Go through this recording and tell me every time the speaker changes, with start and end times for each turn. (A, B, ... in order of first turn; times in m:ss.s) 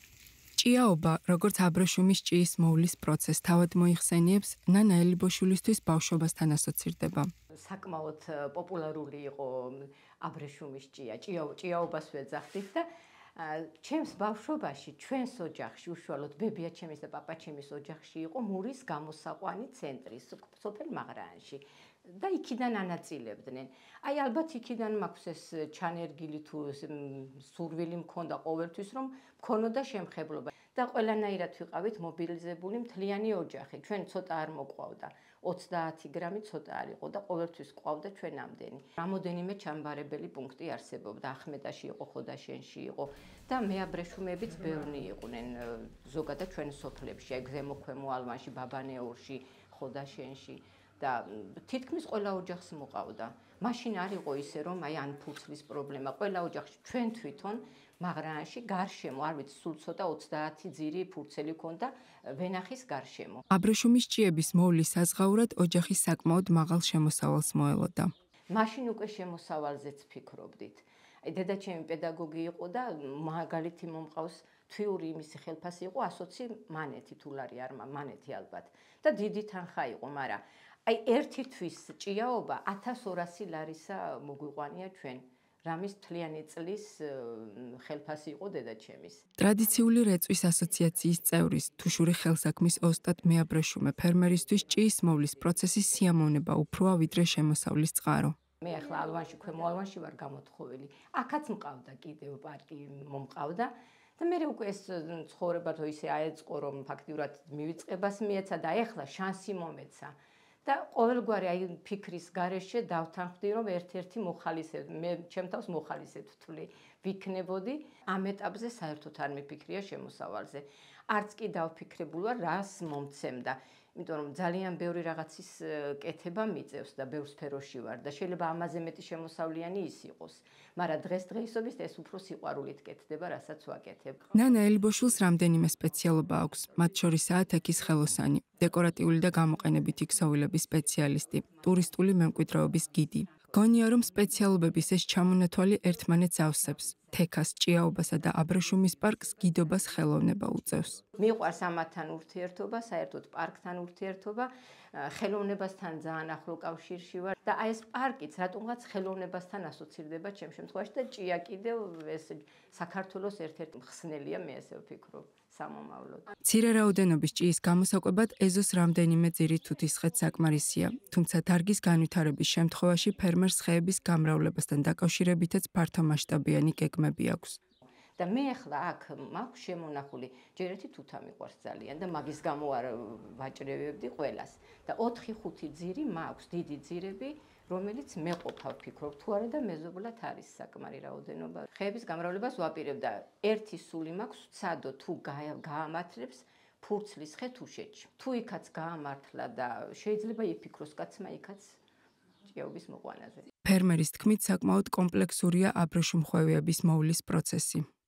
0:00.6-0:07.3 A
0:07.5-1:03.4 B
1:03.5-1:08.1 A
1:08.5-1:29.2 B
1:29.4-1:38.4 A
1:38.6-1:50.1 B
1:50.6-2:14.3 B
2:14.3-2:31.0 A
2:31.2-2:46.3 B
2:46.4-2:57.6 A
2:58.2-3:21.8 B
3:22.4-3:23.5 B
3:23.6-3:27.9 A